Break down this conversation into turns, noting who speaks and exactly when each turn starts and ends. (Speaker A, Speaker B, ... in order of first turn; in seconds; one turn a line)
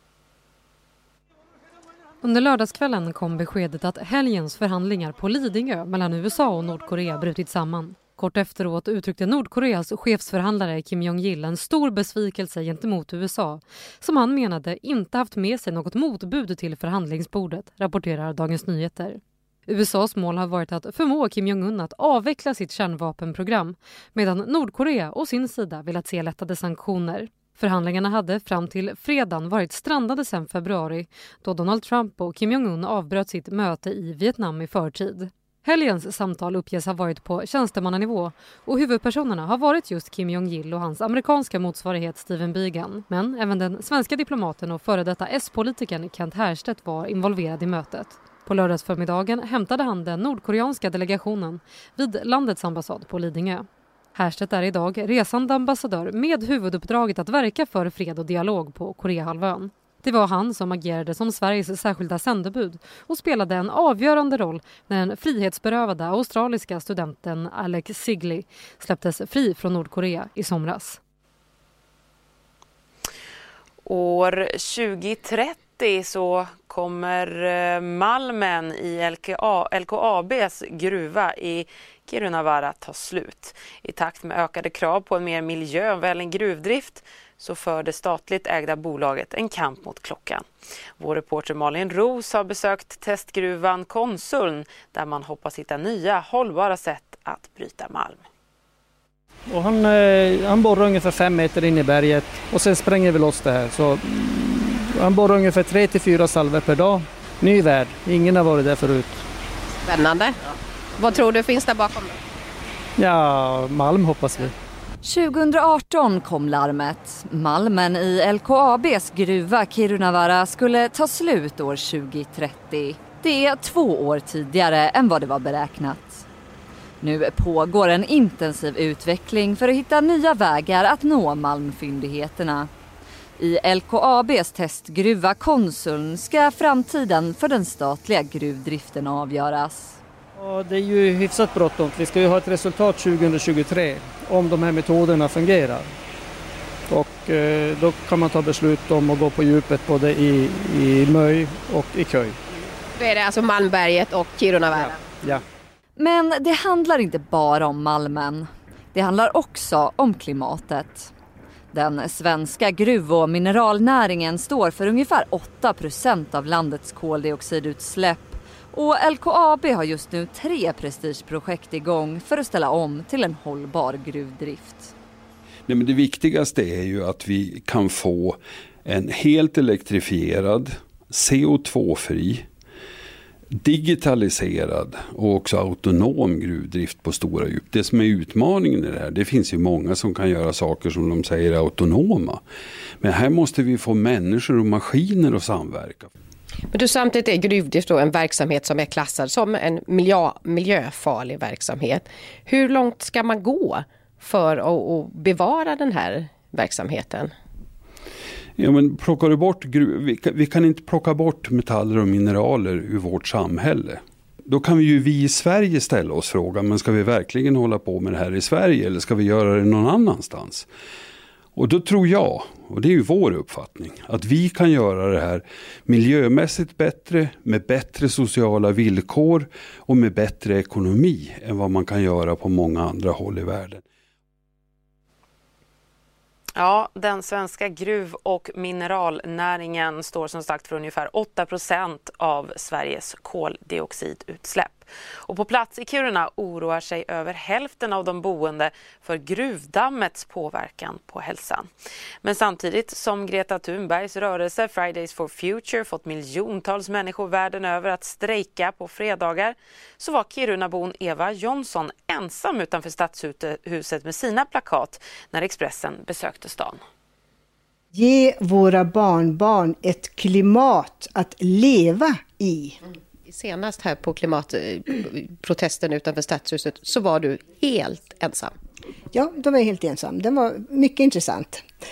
Speaker A: 2.2-71.0
Speaker B: 73.8-90.4
Speaker B: 91.0-98.2
Speaker C: 99.5-104.0
Speaker C: 105.0-109.1
Speaker D: 109.8-110.4
Speaker D: 111.0-112.2
Speaker C: 113.0-114.5
Speaker E: 115.0-126.2
Speaker E: 127.0-132.7
Speaker E: 133.4-140.0
Speaker C: 140.4-145.8
Speaker C: 146.9-152.3
Speaker D: 153.0-155.0
Speaker E: 156.0-161.1
Speaker E: 161.7-174.9
Speaker F: 175.7-182.5
Speaker F: 183.6-192.4
Speaker F: 193.0-196.1
Speaker D: 196.7-207.3
Speaker F: 208.6-220.7
Speaker F: 221.5-233.8
Speaker B: 236.6-251.7
Speaker B: 252.2-266.8
Speaker G: 267.9-272.8
Speaker D: 273.2-278.5
Speaker G: 279.1-281.6